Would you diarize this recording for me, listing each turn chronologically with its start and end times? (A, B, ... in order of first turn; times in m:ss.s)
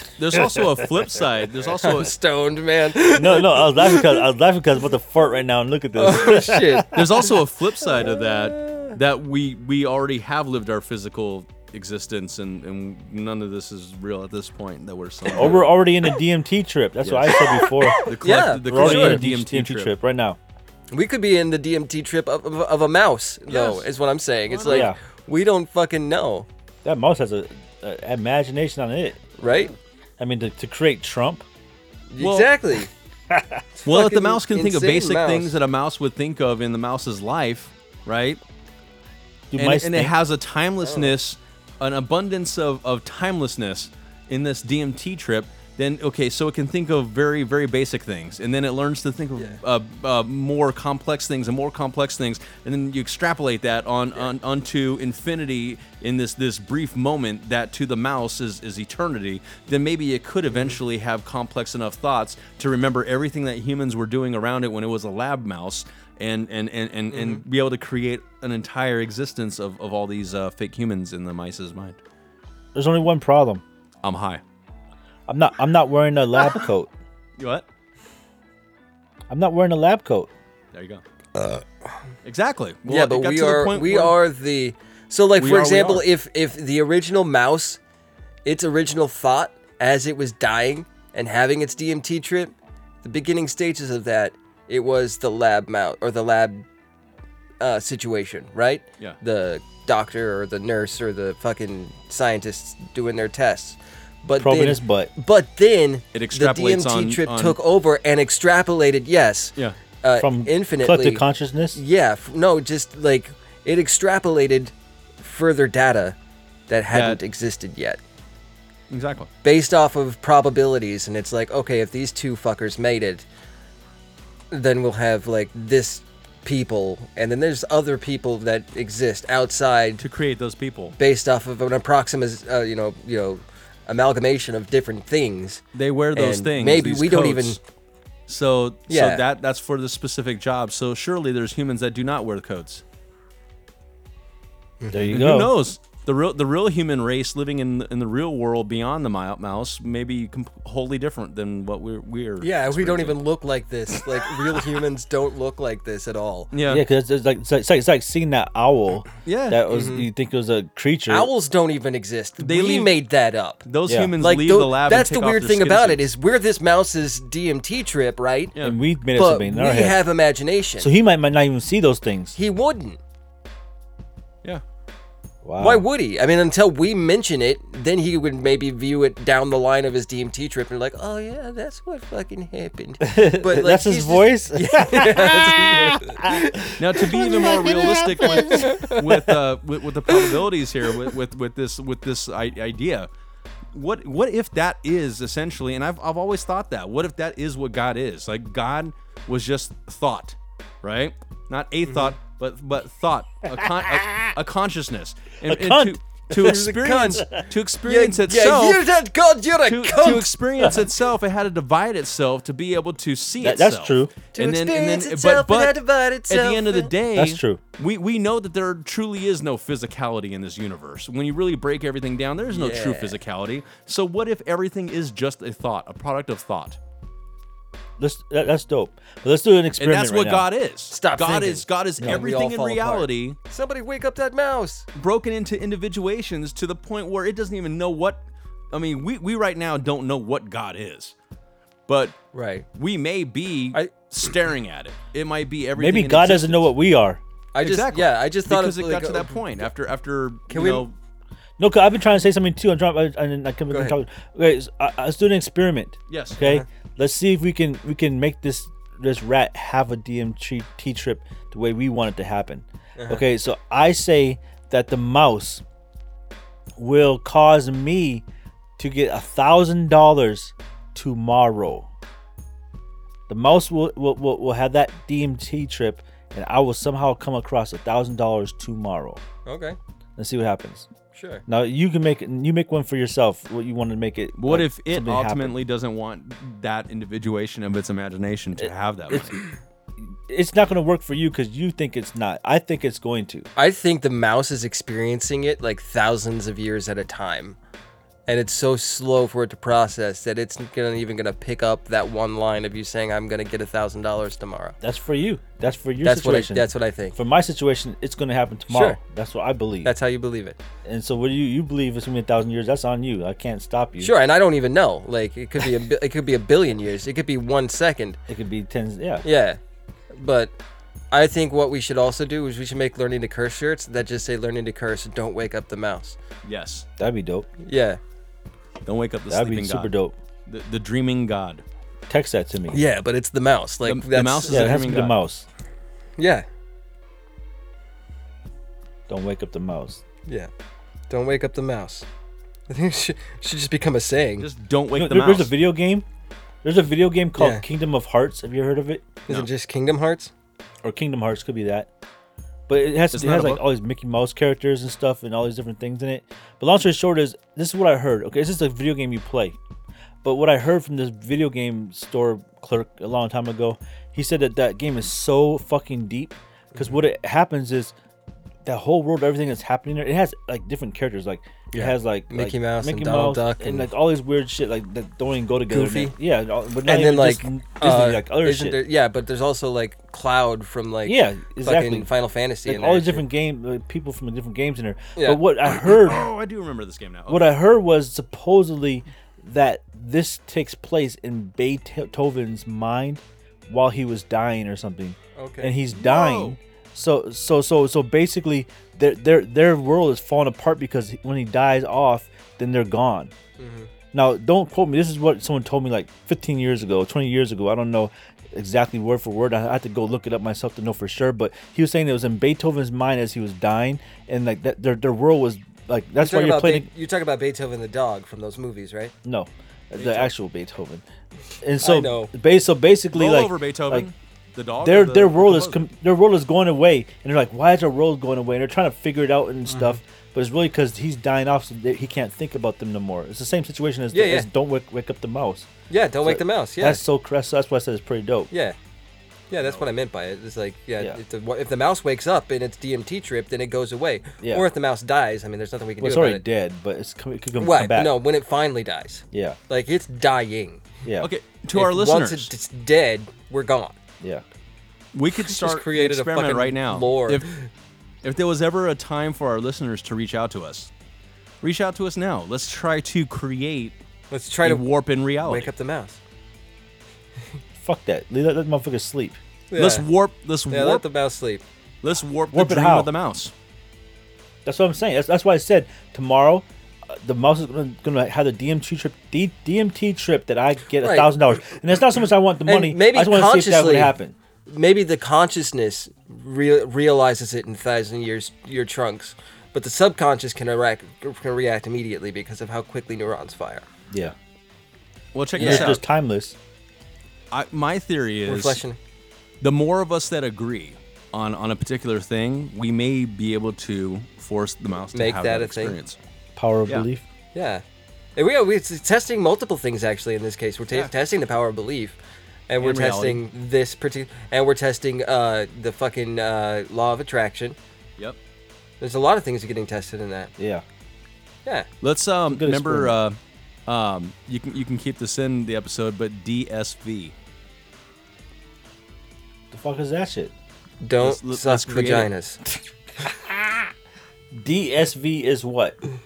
0:00.2-0:02.2 A
0:01.6-0:04.3 B
0:03.1-0:07.0 C
0:06.0-0:09.0 B
0:06.9-0:15.7 A
0:15.4-0:18.1 C
0:17.0-0:17.4 A
0:17.7-0:19.2 B
0:17.9-0:19.9 A
0:18.6-0:20.4 C
0:20.9-0:26.5 B
0:23.5-0:23.9 A
0:24.5-0:24.9 A
0:24.7-0:25.0 C
0:26.8-0:29.2 C
0:29.4-0:29.7 B
0:30.2-0:31.4 C
0:32.1-0:32.9 B
0:32.2-0:32.5 A
0:33.3-0:33.6 C
0:33.8-0:35.6 B
0:33.8-0:38.4 A
0:39.5-0:40.1 C
0:39.6-1:12.0 A
0:40.8-0:41.2 B
0:49.4-0:49.6 B
1:00.5-1:00.8 B
1:07.1-1:07.4 B
1:12.8-1:13.6 C
1:14.0-1:14.4 A
1:15.3-1:16.9 C
1:17.4-1:17.7 A
1:19.3-1:20.3 C
1:20.7-1:21.0 A
1:22.2-1:24.2 A
1:22.9-1:27.8 B
1:25.4-1:26.1 A
1:28.4-1:36.7 B
1:37.6-1:51.2 B
1:44.4-1:45.1 C
1:46.1-1:47.6 A
1:50.2-1:51.8 C
1:51.7-1:56.2 B
1:56.7-1:58.0 B
1:56.9-1:57.2 A
1:58.9-1:59.3 A
1:59.4-2:03.3 B
2:04.5-2:10.0 B
2:10.0-2:11.0 A
2:10.9-2:15.6 B
2:15.8-2:17.6 A
2:16.1-2:17.6 B
2:18.3-2:22.8 A
2:18.9-2:19.2 B
2:24.8-2:25.2 B
2:24.9-2:25.5 C
2:25.1-2:33.2 A
2:32.4-2:36.5 B
2:36.5-2:36.8 A
2:36.7-2:41.3 C
2:39.3-2:39.6 A
2:39.7-2:40.1 B
2:41.1-2:43.6 B
2:42.4-2:43.0 A
2:43.6-2:46.1 A
2:43.9-2:44.1 C
2:44.2-2:48.6 B
2:48.6-2:50.0 C
2:49.2-2:50.9 B
2:50.8-2:52.4 C
2:52.4-2:53.0 B
2:55.4-2:55.8 C
2:55.6-3:09.2 B
3:03.0-3:09.0 C
3:06.8-3:13.1 A
3:10.1-3:10.4 B
3:13.7-3:28.8 A
3:21.9-3:22.2 B
3:23.6-3:24.3 C
3:25.4-3:26.0 C
3:26.3-3:27.3 B
3:27.8-3:30.3 B
3:29.6-3:46.8 A
3:33.4-3:34.1 C
3:34.3-3:36.9 B
3:37.2-3:37.6 C
3:42.5-3:43.2 B
3:48.0-3:50.5 C
3:49.8-3:53.4 A
3:50.9-3:54.9 B
3:55.0-3:58.2 A
3:58.7-4:01.1 A
4:01.9-4:02.2 A
4:02.3-4:02.7 B
4:02.8-4:06.7 A
4:03.7-4:04.3 B
4:05.8-4:07.2 C
4:07.5-4:09.4 B
4:07.6-4:11.0 A
4:10.5-4:10.9 B
4:11.6-4:25.6 C
4:13.7-4:14.0 B
4:16.1-4:16.4 A
4:16.4-4:16.6 B
4:23.0-4:23.2 B
4:26.8-4:28.2 C
4:28.8-4:31.9 C
4:33.3-4:39.2 C
4:39.4-4:39.8 B
4:40.2-4:40.9 C
4:41.1-4:41.4 B
4:41.5-4:45.6 C
4:44.4-4:49.4 A
4:48.6-4:49.4 C
4:50.0-4:53.5 C
4:53.6-4:57.6 B
4:58.3-5:04.8 B
5:04.8-5:09.9 C
5:06.0-5:07.2 B
5:08.7-5:09.0 B
5:09.8-5:10.6 B
5:10.8-5:14.1 C
5:14.0-5:18.2 B
5:18.3-5:19.3 C
5:19.2-5:19.6 B
5:20.1-5:20.5 B
5:21.1-5:26.2 B
5:26.4-5:26.9 A
5:27.0-5:27.5 C
5:27.6-5:28.0 B
5:28.8-5:29.9 A
5:29.3-5:30.1 C
5:30.5-5:31.6 A
5:32.1-5:32.8 C
5:32.7-5:34.8 B
5:33.8-5:35.2 A
5:34.5-5:35.5 C
5:36.2-5:36.4 B
5:39.1-5:40.0 C
5:41.1-5:42.1 B
5:42.7-5:44.5 B
5:44.4-5:45.5 A
5:44.9-5:46.0 C
5:46.6-5:49.1 C
5:47.4-5:47.6 B
5:49.3-5:50.3 B
5:50.8-5:51.9 C
5:52.7-5:59.6 C
5:53.1-5:53.6 A
6:00.2-6:07.9 C
6:08.6-6:18.8 C
6:11.7-6:13.9 B
6:15.7-6:16.1 B
6:16.8-6:23.2 B
6:21.0-6:22.1 C
6:22.7-6:26.2 C
6:25.2-6:25.4 B
6:25.7-6:27.5 A
6:27.3-6:43.3 C
6:35.4-6:35.8 B
6:35.9-6:36.6 A
6:43.6-6:43.9 B
6:44.1-6:56.9 C
6:56.2-6:59.1 B
6:59.2-7:01.0 C
7:00.0-7:00.3 A
7:01.6-7:04.1 C
7:01.8-7:02.3 B
7:03.1-7:05.8 A
7:04.8-7:15.7 C
7:09.7-7:10.0 B
7:14.1-7:14.5 B
7:15.9-7:17.0 B
7:16.2-7:18.5 C
7:18.5-7:18.8 B
7:19.5-7:26.4 B
7:19.6-7:19.9 A
7:24.4-7:24.7 C
7:26.0-7:28.2 C
7:27.6-7:30.8 B
7:29.3-7:29.6 C
7:31.2-7:32.5 A
7:31.7-7:34.0 B
7:35.1-7:37.5 A
7:35.4-7:37.7 B
7:38.2-7:40.9 A
7:41.6-7:44.0 A
7:44.3-7:44.9 B
7:44.6-7:45.7 A
7:45.4-7:46.2 B
7:47.8-7:49.4 C
7:49.7-7:50.1 B
7:49.8-7:51.0 A
7:50.7-7:51.6 B
7:52.0-7:53.5 A
7:52.5-7:53.1 C
7:54.6-8:04.3 C
8:01.0-8:01.4 B
8:02.7-8:04.2 B
8:04.7-8:13.9 B
8:15.3-8:16.0 A
8:15.6-8:16.0 B
8:15.6-8:16.6 C
8:17.5-8:18.8 A
8:18.5-8:19.0 B
8:19.6-8:26.2 A
8:25.1-8:26.0 B
8:26.6-8:27.2 C
8:27.5-8:27.8 B
8:28.4-8:32.2 B
8:32.7-8:37.8 B
8:32.8-8:33.4 A
8:39.0-8:40.5 B
8:40.6-8:40.8 C
8:42.0-8:47.3 A
8:42.5-8:43.2 C
8:49.7-8:50.5 C
8:51.0-8:52.6 B
8:51.2-8:52.3 A
8:54.5-8:56.0 C